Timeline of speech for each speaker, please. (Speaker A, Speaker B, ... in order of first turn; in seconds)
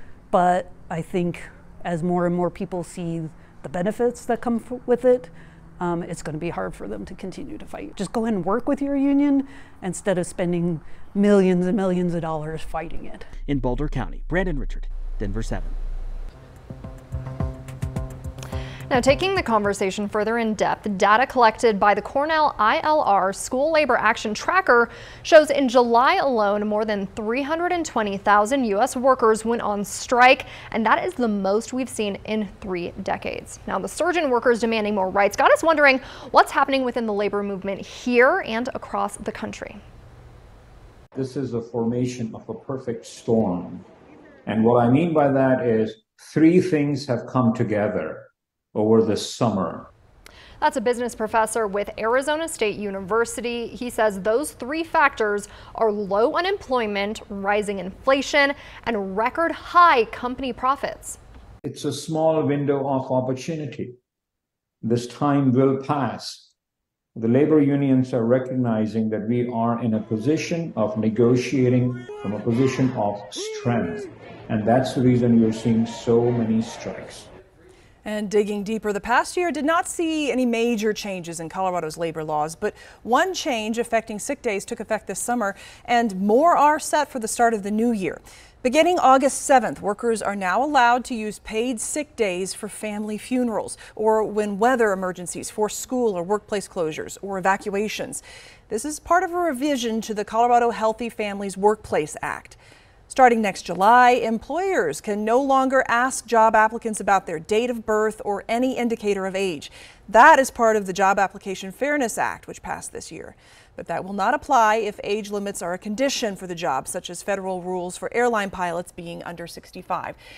Speaker A: 0.3-13.3
Speaker B: 13.4-15.8
Speaker C: 18.9-39.8, 50.6-61.2
Speaker D: 41.1-43.9, 44.5-49.9, 61.6-64.0, 64.8-66.5, 67.1-77.3
Speaker E: 78.0-102.6, 103.1-120.2